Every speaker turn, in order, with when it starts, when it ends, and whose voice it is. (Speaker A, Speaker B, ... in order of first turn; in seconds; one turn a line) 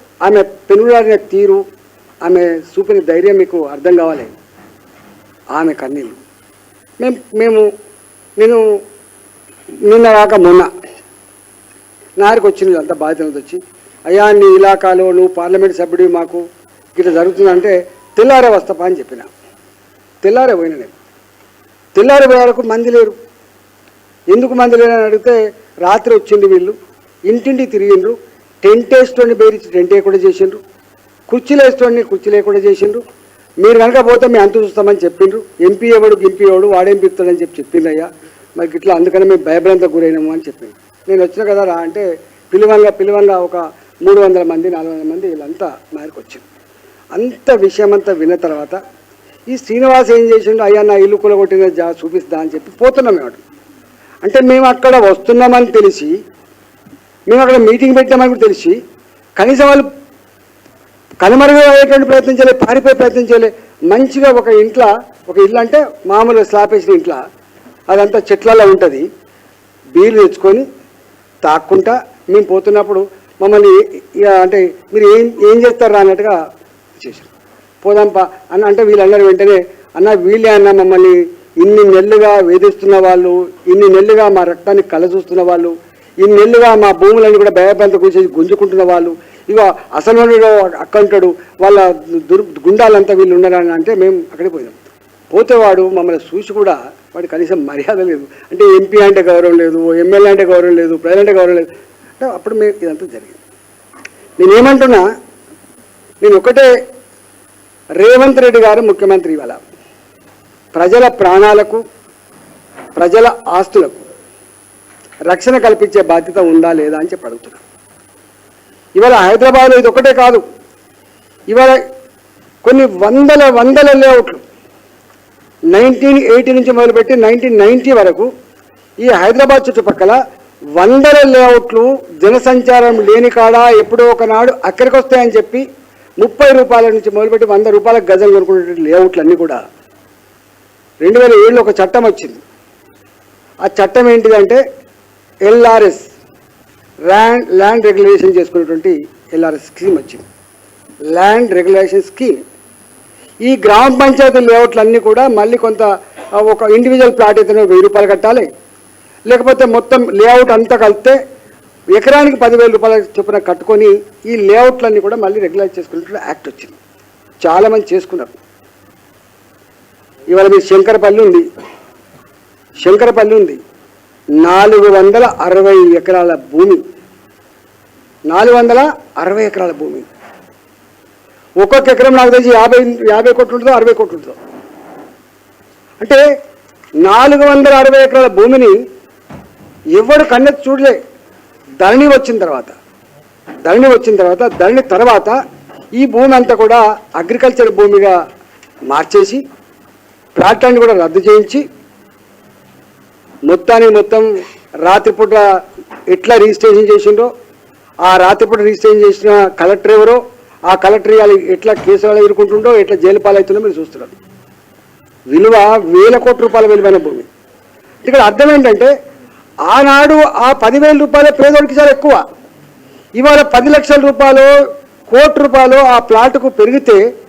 Speaker A: 0.2-1.6
Speaker A: 2.3-4.3
Speaker A: 5.5-6.2
Speaker A: 7.0-7.7
Speaker A: 9.9-10.7
Speaker A: 12.2-16.4
Speaker A: 16.9-19.3
Speaker A: 20.2-20.9
Speaker A: 21.9-23.1
Speaker A: 24.3-26.8
Speaker A: 27.3-30.6
Speaker A: 31.3-33.0
Speaker A: 33.6-46.5
Speaker A: 47.2-48.8
Speaker A: 49.5-53.4
Speaker A: 54.2-56.1
Speaker A: 57.3-58.8
Speaker A: 59.4-59.9
Speaker A: 61.2-67.2
Speaker A: 67.9-69.0
Speaker A: 70.0-70.7
Speaker A: 71.4-76.4
Speaker A: 77.0-77.3
Speaker A: 77.8-94.8
Speaker A: 95.3-101.7
Speaker A: 102.2-103.4
Speaker A: 104.4-105.0
Speaker A: 106.2-106.7
Speaker A: 108.0-109.6
Speaker A: 110.8-111.8
Speaker A: 113.0-114.0
Speaker A: 115.3-117.6
Speaker A: 119.0-120.4
Speaker A: 121.5-121.8
Speaker A: 122.6-124.4
Speaker A: 125.7-128.3
Speaker A: 129.0-130.2
Speaker A: 130.8-135.7
Speaker A: 136.2-139.6
Speaker A: 141.0-142.4
Speaker A: 143.7-144.6
Speaker A: 145.5-146.1
Speaker A: 147.1-150.2
Speaker A: 151.1-152.4
Speaker A: 153.4-155.9
Speaker A: 156.4-158.5
Speaker A: 159.3-161.2
Speaker A: 161.9-166.8
Speaker A: 167.4-168.3
Speaker A: 170.3-171.5
Speaker A: 172.8-173.6
Speaker A: 174.4-176.8
Speaker A: 178.3-180.1
Speaker A: 181.6-184.4
Speaker A: 187.0-188.8
Speaker A: 189.9-191.0
Speaker A: 191.8-192.7
Speaker A: 193.7-195.3
Speaker A: 196.0-198.2
Speaker A: 198.9-199.4
Speaker A: 200.4-201.7
Speaker A: 203.5-204.3
Speaker A: 204.8-205.5
Speaker A: 206.1-207.3
Speaker A: 208.0-214.1
Speaker A: 215.3-217.3
Speaker A: 218.1-218.9
Speaker A: 219.7-222.2
Speaker A: 223.2-224.5
Speaker A: 225.1-227.0